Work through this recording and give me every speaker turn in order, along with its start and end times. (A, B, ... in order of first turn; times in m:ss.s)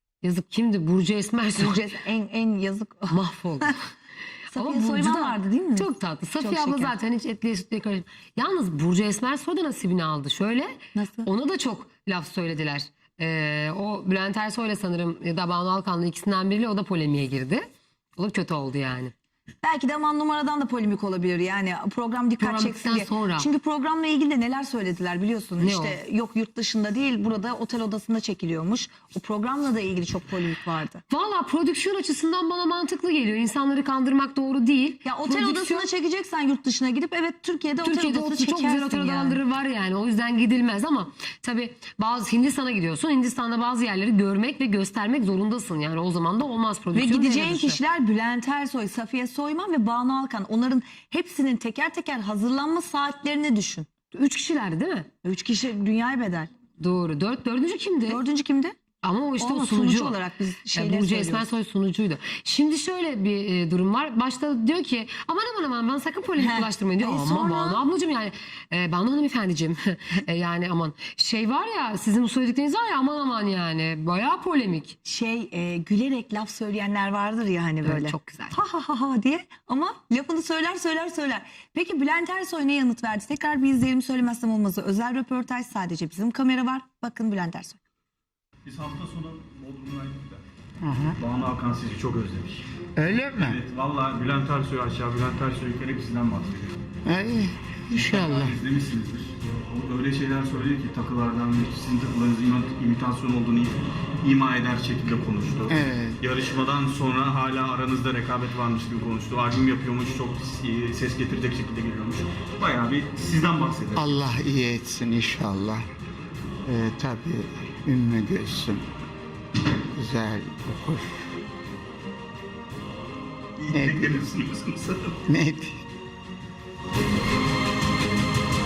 0:00.2-0:01.8 A
0:01.5-0:03.7 B
0:03.1-0:03.7 A
0:04.5-0:06.9 B
0:04.5-0:19.1 A
0:10.9-0:11.3 B
0:19.6-0:31.0 B
0:22.4-0:23.5 A
0:25.6-0:26.0 A
0:31.1-0:35.9 A
0:35.0-0:39.4 B
0:37.8-0:47.8 A
0:46.9-0:53.9 B
0:54.1-0:55.1 A
0:55.2-0:56.5 B
0:56.8-0:58.2 A
0:58.1-0:58.8 B
0:59.0-1:00.2 A
0:59.4-1:01.5 B
1:00.7-1:15.0 A
1:06.4-1:07.8 B
1:15.0-1:27.8 B
1:17.8-1:18.6 A
1:28.6-1:30.4 C
1:30.8-1:31.2 D
1:31.2-1:32.6 C
1:33.0-1:33.6 D
1:33.4-1:36.7 C
1:37.0-1:38.5 D
1:37.9-1:54.1 C
1:45.7-1:46.2 D
1:54.0-1:55.8 D
1:56.6-1:58.8 D
1:59.8-2:01.1 D
2:03.6-2:05.2 C
2:03.7-2:04.1 D
2:05.3-2:05.8 D